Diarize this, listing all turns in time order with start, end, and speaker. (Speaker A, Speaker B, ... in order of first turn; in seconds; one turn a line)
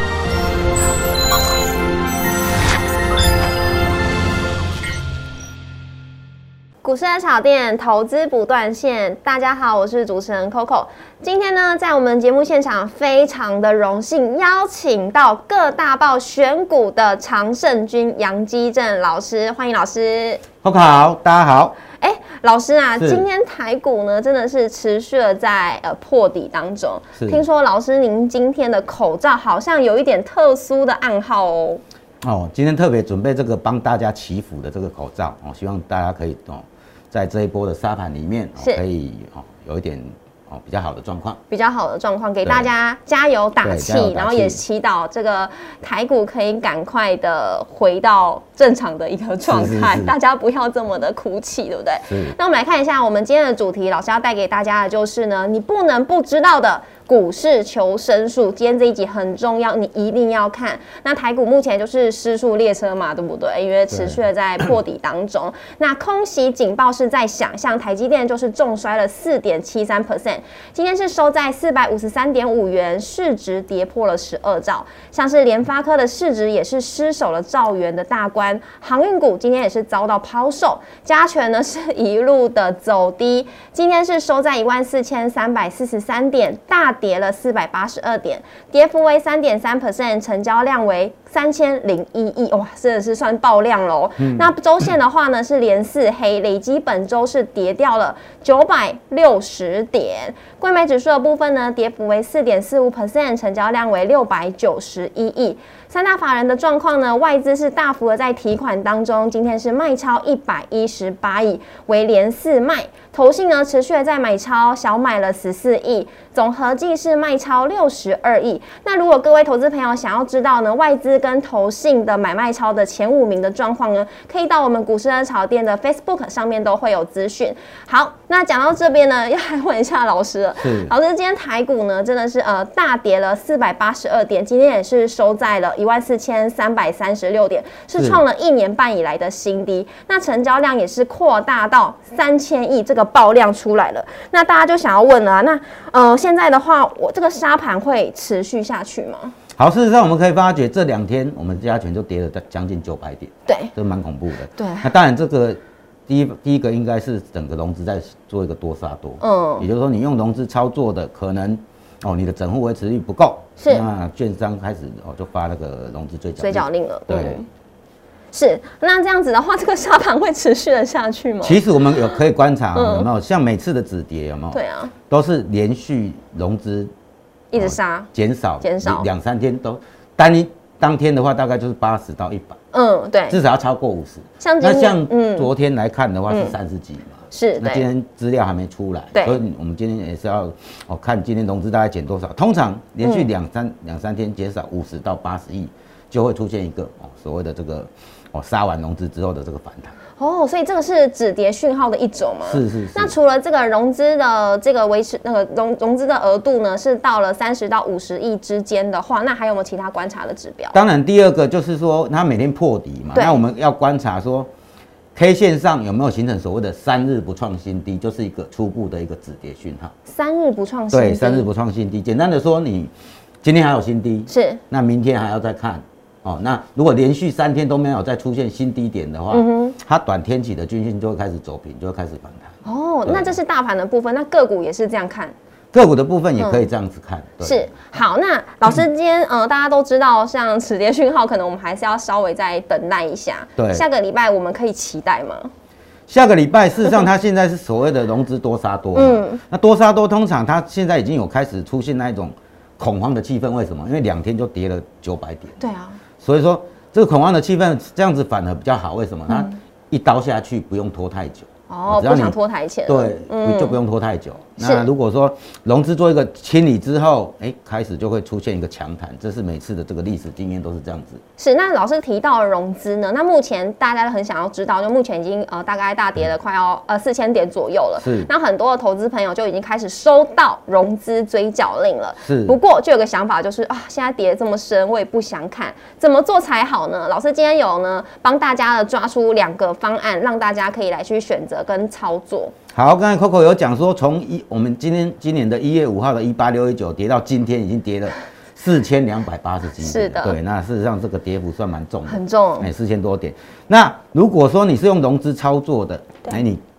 Speaker A: 6.8-20.4
Speaker B: 20.6-21.8
Speaker A: 22.0-31.8
Speaker B: 23.0-23.2
Speaker B: 27.2-27.4
Speaker B: 32.2-41.4
Speaker A: 41.5-149.3
Speaker B: 42.4-42.7
Speaker B: 43.6-44.6
Speaker B: 49.5-50.1
Speaker B: 52.1-52.4
Speaker B: 63.9-64.2
Speaker B: 94.2-94.5
Speaker B: 130.6-130.9
Speaker B: 137.9-138.2
Speaker B: 149.6-167.4
Speaker A: 153.4-153.7
Speaker A: 154.6-154.9
Speaker A: 159.2-159.7
Speaker A: 163.6-163.8
Speaker A: 166.4-167.5
Speaker A: 168.3-172.2
Speaker B: 171.4-176.9
Speaker A: 172.7-173.1
Speaker A: 174.5-174.9
Speaker A: 177.5-179.1
Speaker B: 177.6-182.6
Speaker A: 182.7-183.4
Speaker B: 183.3-199.9
Speaker A: 184.4-185.5
Speaker A: 186.3-186.5
Speaker A: 187.3-187.8
Speaker A: 189.1-189.4
Speaker A: 193.0-193.3
Speaker A: 200.2-210.8
Speaker B: 202.4-203.1
Speaker B: 210.7-214.5
Speaker A: 213.1-213.4
Speaker B: 215.1-219.9
Speaker A: 220.1-221.5
Speaker B: 220.9-222.9
Speaker B: 223.4-233.4
Speaker A: 224.3-224.6
Speaker A: 229.3-229.8
Speaker A: 232.6-235.3
Speaker B: 235.7-237.7
Speaker A: 236.4-236.6
Speaker A: 237.4-245.5
Speaker B: 243.6-243.8
Speaker B: 246.1-255.6
Speaker A: 248.9-249.4
Speaker A: 255.6-256.0
Speaker B: 256.2-271.2
Speaker A: 259.3-259.6
Speaker A: 261.7-263.8
Speaker A: 264.6-264.9
Speaker A: 271.4-292.5
Speaker B: 278.0-278.3
Speaker B: 282.2-282.6
Speaker B: 292.7-306.6
Speaker A: 299.8-300.4
Speaker A: 302.1-302.7